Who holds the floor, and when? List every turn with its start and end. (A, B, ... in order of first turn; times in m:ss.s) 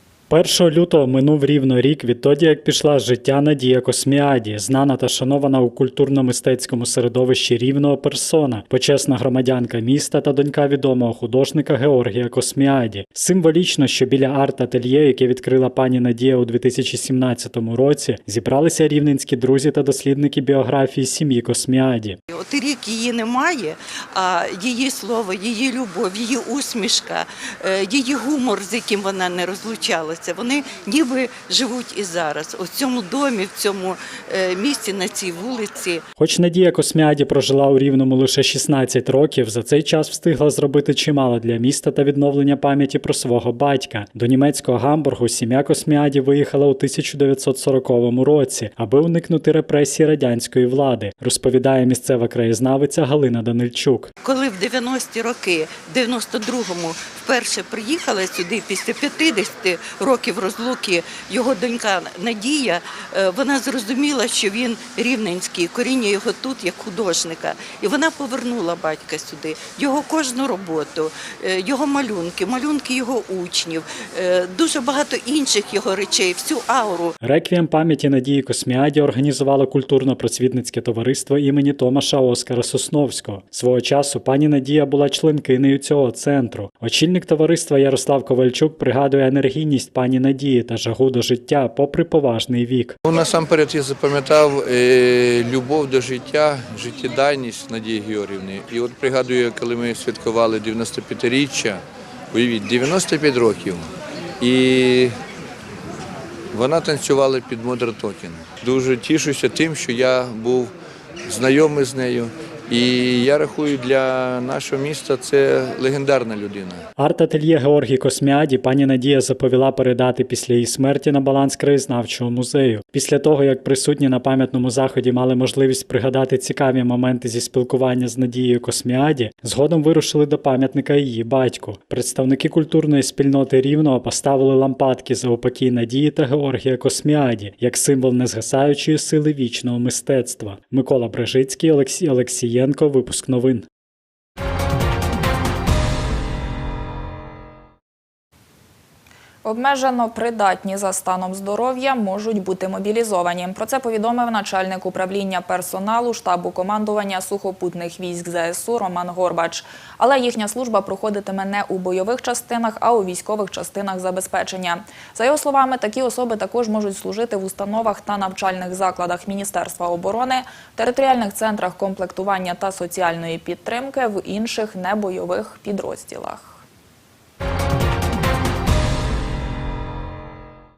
0:00.3-0:22.2 A
0:22.3-0:36.0 B
0:36.2-0:54.1 A
0:54.2-1:17.2 B
1:17.2-1:33.0 A
1:33.0-1:45.2 C
1:46.5-1:50.7 C
1:51.3-1:56.8 C
1:57.0-2:23.7 A
2:29.4-2:56.6 D